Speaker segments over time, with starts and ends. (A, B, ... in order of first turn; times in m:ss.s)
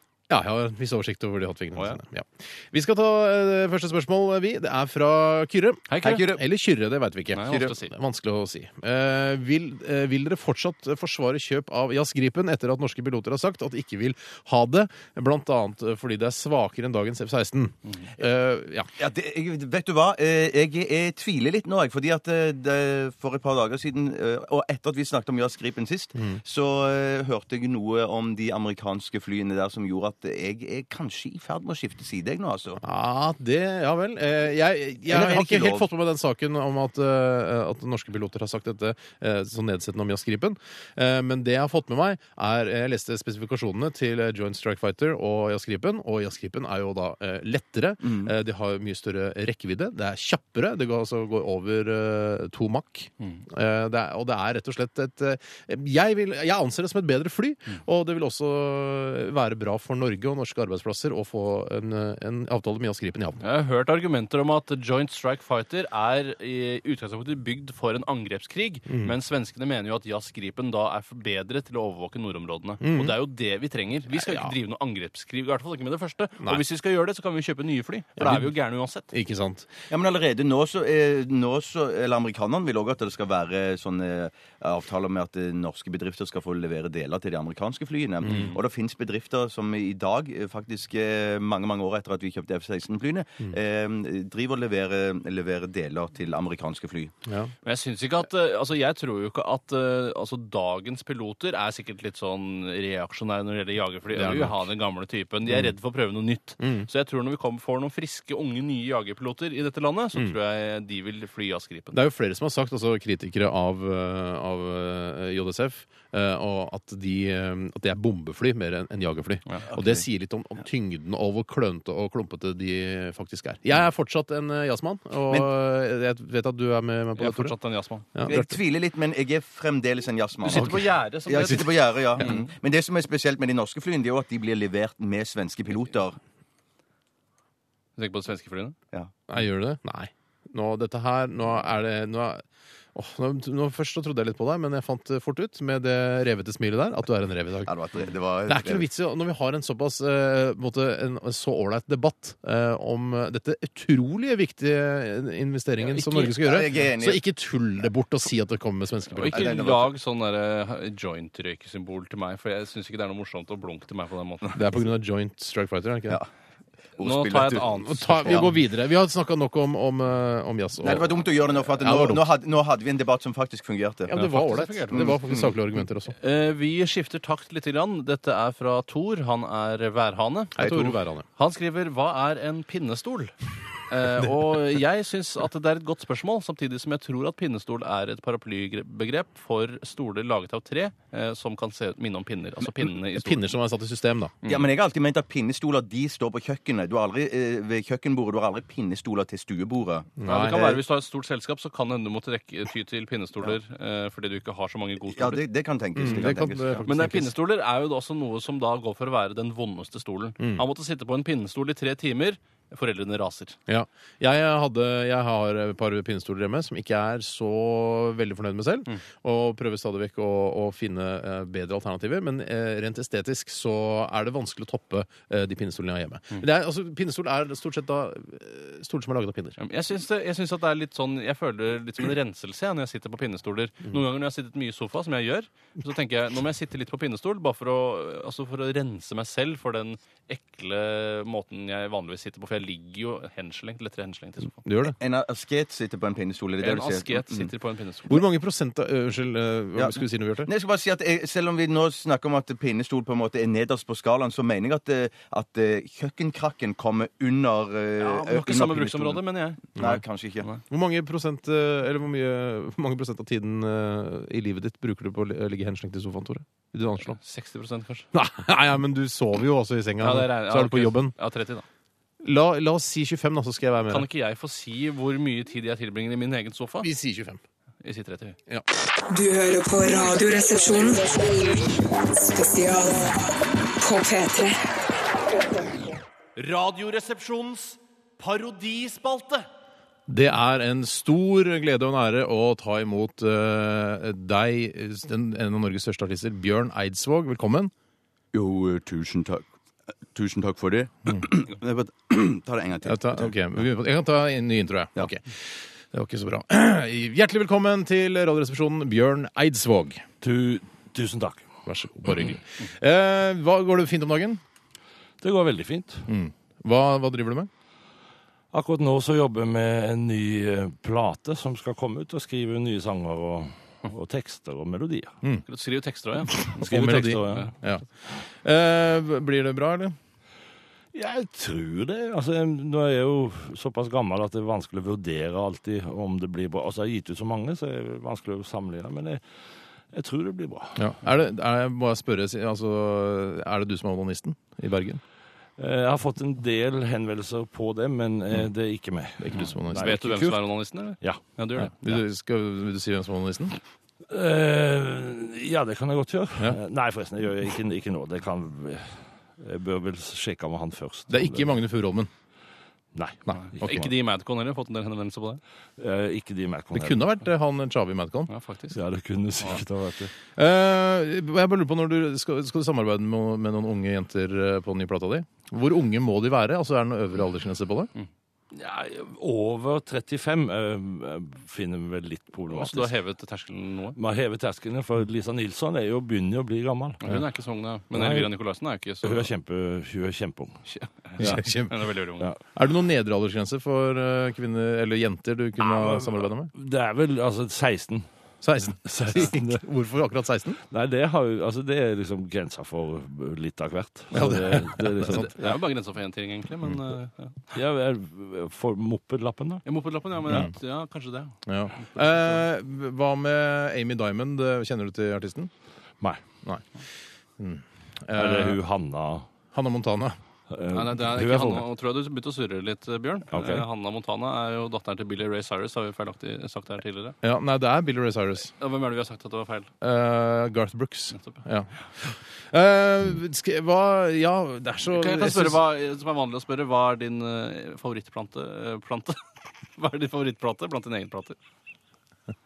0:00.3-0:18.9 A
0:05.9-0:06.4 B
0:06.0-0:06.4 C
0:07.3-0:07.9 B
0:19.0-0:32.8 C
0:26.2-0:26.4 A
0:32.8-1:03.4 A
0:35.1-0:35.8 C
0:48.0-0:48.3 C
1:03.4-1:19.1 B
1:08.9-1:09.1 A
1:12.8-1:13.1 A
1:14.2-1:14.5 A
1:18.2-1:18.5 A
1:19.1-1:19.7 A
1:19.9-1:37.1 C
1:28.2-1:28.6 B
1:37.2-1:37.5 A
1:37.6-1:52.0 B
1:44.1-1:44.6 A
1:46.6-1:46.9 A
1:51.9-2:07.6 A
1:59.7-2:00.0 C
2:07.2-2:08.1 B
2:08.1-2:08.6 A
2:08.3-2:16.2 C
2:10.4-2:12.5 B
2:18.0-2:18.8 B
2:19.3-2:27.7 A
2:27.7-2:28.9 C
2:28.5-2:39.6 A
2:36.0-2:36.3 B
2:36.0-2:37.2 C
2:39.1-2:44.6 B
2:39.3-2:39.9 C
2:44.5-2:46.2 A
2:47.0-2:47.7 C
2:47.0-2:48.5 B
2:47.8-2:51.1 A
2:50.8-2:54.2 C
2:51.8-2:52.2 A
2:54.1-2:56.1 A
2:54.1-2:55.1 B
2:54.9-2:55.5 C
2:56.2-3:03.3 B
3:00.6-3:01.2 A
3:03.9-3:13.5 B
3:13.1-3:14.3 A
3:14.4-3:14.7 B
3:14.4-3:20.8 C
3:20.2-3:20.8 A
3:20.2-3:25.4 B
3:25.1-3:26.8 C
3:26.0-3:27.3 A
3:26.8-3:33.6 B
3:30.4-3:30.6 A
3:33.7-3:49.6 A
3:49.6-4:04.6 B
4:04.6-4:05.0 A
4:05.0-4:07.5 C
4:06.6-4:08.2 B
4:08.1-4:10.5 A
4:09.8-4:20.5 C
4:18.0-4:19.7 B
4:20.7-4:27.2 A
4:27.0-4:28.1 B
4:28.1-4:31.1 A
4:30.0-4:31.6 B
4:32.2-4:34.0 A
4:33.9-4:36.9 B
4:36.8-4:37.4 A
4:37.8-4:38.4 B
4:39.1-4:43.2 D
4:43.8-4:44.6 D
4:46.4-4:49.4 E
4:50.1-4:57.7 A
4:58.3-4:59.4 C
5:00.1-5:03.3 C
5:02.8-5:10.0 A
5:10.2-5:11.5 F
5:11.6-5:14.4 A
5:15.2-5:16.0 F
5:16.1-5:17.5 A
5:18.5-5:25.2 F
5:25.4-5:27.5 B
5:26.4-5:30.0 A
5:26.5-5:27.5 F
5:30.9-5:39.2 F
5:39.9-5:40.8 F
5:40.8-5:45.0 A
5:45.6-5:51.2 F
5:49.2-5:50.1 A
5:49.7-5:52.0 B
5:51.6-5:53.6 A
5:54.1-6:01.6 F
6:01.1-6:02.1 A
6:02.9-6:03.9 F
6:03.2-6:03.6 A
6:03.6-6:05.4 B
6:05.8-6:07.0 F
6:06.7-6:08.3 A
6:08.3-6:08.8 B
6:08.7-6:10.1 F
6:10.3-6:17.9 A
6:18.5-6:22.9 F
6:22.5-6:24.0 B
6:24.0-6:27.2 F
6:27.0-6:29.3 B
6:27.9-6:28.3 F
6:29.0-6:30.6 F
6:30.6-6:32.3 B
6:31.2-6:31.9 A
6:32.5-6:36.5 A
6:35.6-6:38.1 F
6:38.4-6:40.6 A
6:38.8-6:39.6 F
6:40.7-6:45.6 F
6:44.1-6:45.3 A
6:45.1-6:47.5 B
6:47.5-6:49.6 F
6:49.6-6:52.3 B
6:50.3-6:50.5 A
6:51.4-6:55.5 A
6:57.4-6:58.6 A
6:58.1-6:59.3 F
6:59.5-7:00.2 A
7:00.5-7:01.6 F
7:00.7-7:07.2 B
7:03.3-7:03.6 F
7:07.2-7:08.5 A
7:08.5-7:09.7 B
7:09.8-7:15.6 A
7:11.1-7:11.4 B
7:14.9-7:19.2 B
7:19.7-7:21.4 B